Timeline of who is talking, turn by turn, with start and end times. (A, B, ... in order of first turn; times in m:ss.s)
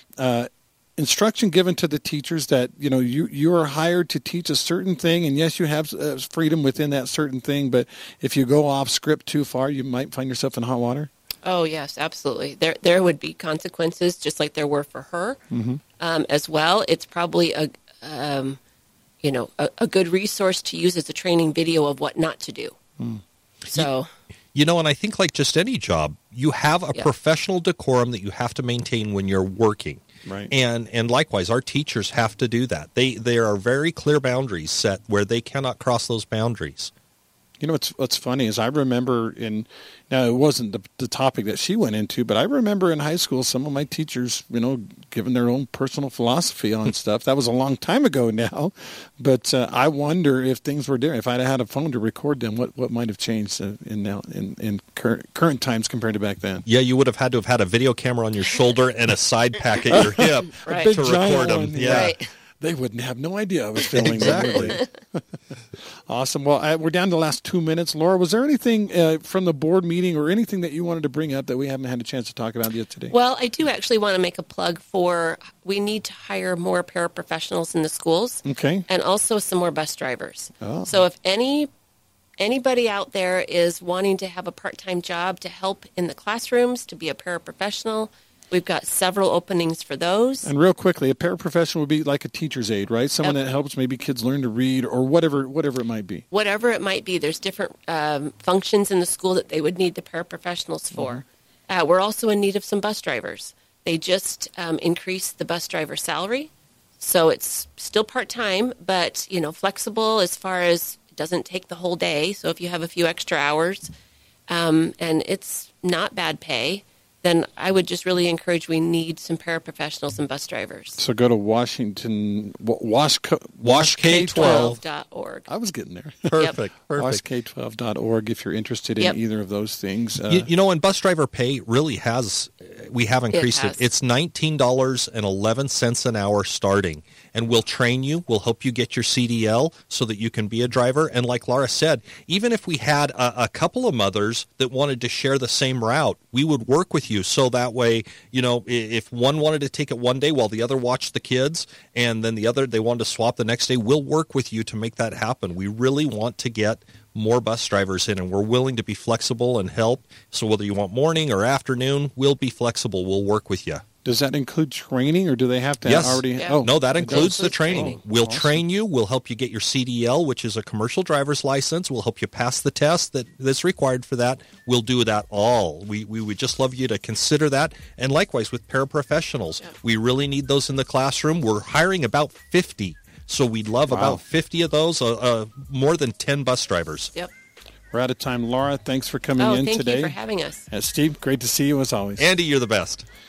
0:00.2-0:11.1 A
0:11.4-0:15.4 B
0:15.5-0:15.8 A
0:16.0-0:18.6 B
0:19.2-0:22.8 B
0:23.7-0:24.1 B
0:24.5-0:36.9 C
0:30.2-0:30.5 A
0:37.6-0:56.6 A
0:56.7-1:02.2 C
0:59.9-1:05.2 A
1:00.5-1:00.9 B
1:01.8-1:02.3 B
1:03.9-1:04.8 C
1:04.2-1:04.9 B
1:06.1-1:13.1 A
1:13.1-1:21.7 B
1:18.4-1:18.8 A
1:20.6-1:21.0 A
1:22.4-1:30.5 B
1:30.4-1:36.2 A
1:36.3-1:53.9 B
1:40.9-1:41.2 A
1:54.5-2:01.0 B
2:01.0-2:04.7 A
2:03.6-2:04.8 C
2:04.3-2:05.5 B
2:05.5-2:10.5 A
2:06.3-2:07.2 C
2:10.3-2:43.8 C
2:13.3-2:13.8 B
2:44.0-2:48.6 A
2:45.8-3:07.1 C
2:46.4-2:48.0 B
3:03.9-3:04.2 A
3:07.9-3:10.1 A
3:09.4-3:10.6 B
3:10.7-3:12.3 A
3:12.2-3:13.0 C